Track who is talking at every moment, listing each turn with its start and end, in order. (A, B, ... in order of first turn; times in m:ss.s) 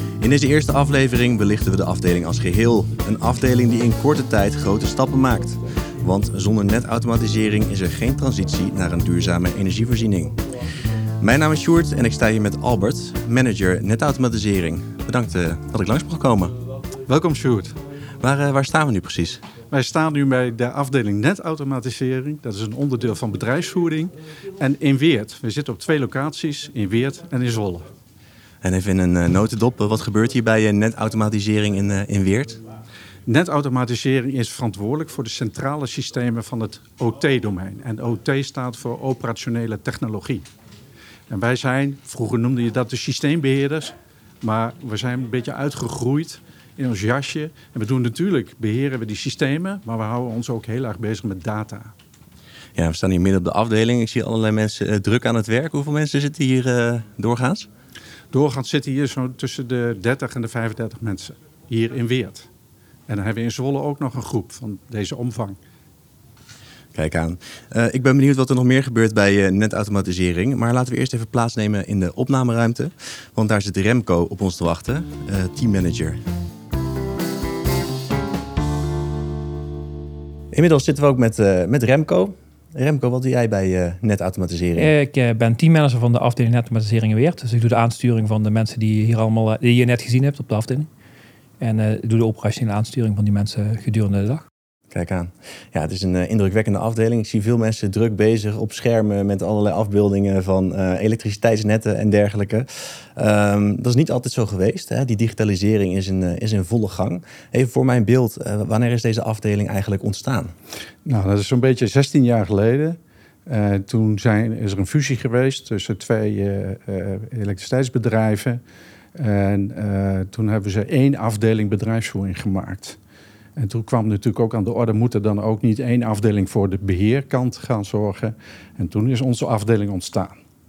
0:00.2-0:10.4 A
0:11.2-0:16.5 A
0:17.1-0:17.8 B
0:18.2-0:19.4 A
0:19.7-0:27.9 B
0:28.6-0:32.6 A
0:33.2-0:40.4 B
0:41.3-0:51.9 B
0:52.8-0:57.7 A
0:58.3-1:02.5 B
1:03.1-1:05.6 B
1:06.9-1:16.2 A
1:20.5-1:24.9 A
1:24.8-1:30.9 C
1:31.6-1:34.4 C
1:34.9-1:50.5 A
1:51.0-1:58.6 B
1:59.1-2:03.0 B
2:03.6-2:10.3 B